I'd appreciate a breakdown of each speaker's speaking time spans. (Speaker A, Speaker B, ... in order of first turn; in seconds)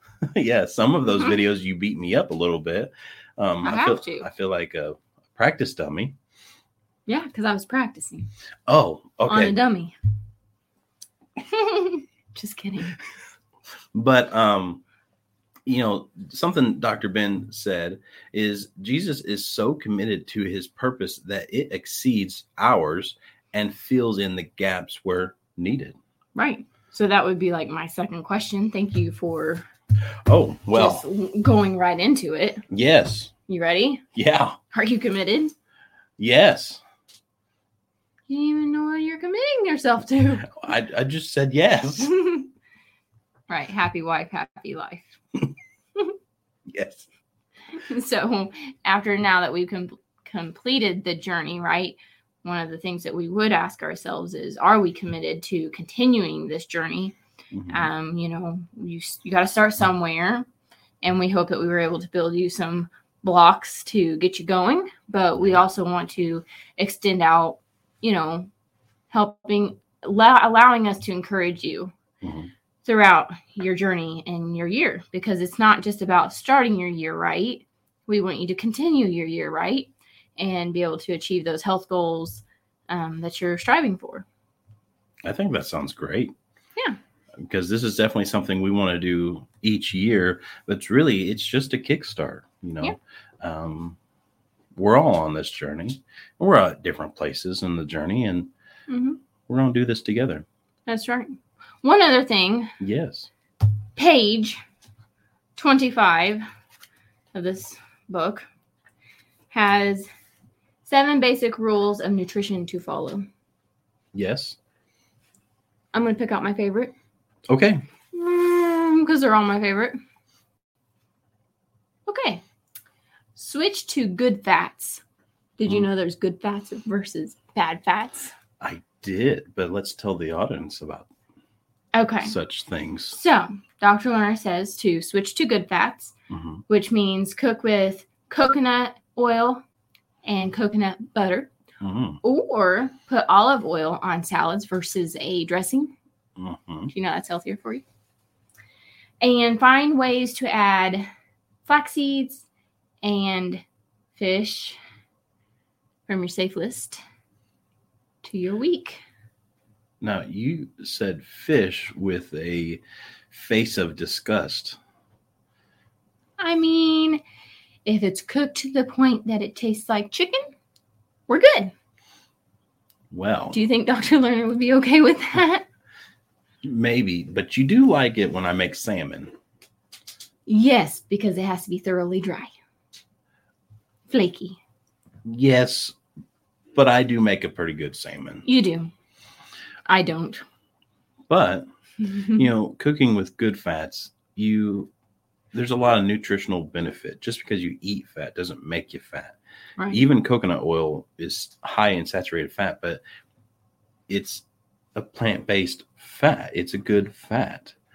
Speaker A: 0.2-6.1, 8.7-9.6, 13.9-14.8, 15.7-26.0, 30.3-31.1, 32.7-33.3, 34.1-34.6, 36.2-36.8, 40.5-42.1, 46.7-47.1, 57.5-57.9, 72.2-72.5, 85.2-86.3, 87.4-94.0, 94.7-98.5, 99.5-100.4, 102.8-103.3, 114.1-114.6, 117.5-117.8, 128.6-131.1, 132.2-133.2, 136.3-136.6, 141.8-142.2, 146.4-146.9, 160.0-164.8, 173.1-173.6, 176.6-179.3, 185.2-185.9, 186.7-188.4, 191.3-191.7, 192.3-194.9, 195.5-199.3, 199.9-203.0, 204.1-204.4, 204.9-207.8
Speaker B: 3.6-4.3, 7.1-8.3, 9.3-9.9, 11.5-13.0, 26.3-29.6, 30.7-32.6, 33.5-34.0, 34.7-35.5, 38.3-40.6, 42.1-42.5, 43.5-45.2, 47.7-57.1, 57.7-60.5, 61.0-68.5, 69.1-71.9, 72.8-84.2, 98.9-99.2, 100.9-102.7, 104.0-104.6, 105.5-106.4, 107.3-108.5, 109.5-110.1, 110.8-113.2, 115.9-116.9, 118.1-120.0, 122.1-122.4, 123.3-125.0, 125.6-128.3, 131.9-132.3, 133.1-136.1, 136.7-139.6, 140.2-141.5, 142.2-145.9, 146.9-147.8, 149.2-151.1, 151.7-152.4, 153.0-153.6, 154.1-154.8, 156.1-157.0, 158.2-159.0, 166.4-167.2, 167.8-170.4, 171.3-171.7, 173.5-175.6, 180.4-182.5, 184.1-184.6, 188.4-188.9, 189.8-190.4, 192.1-192.3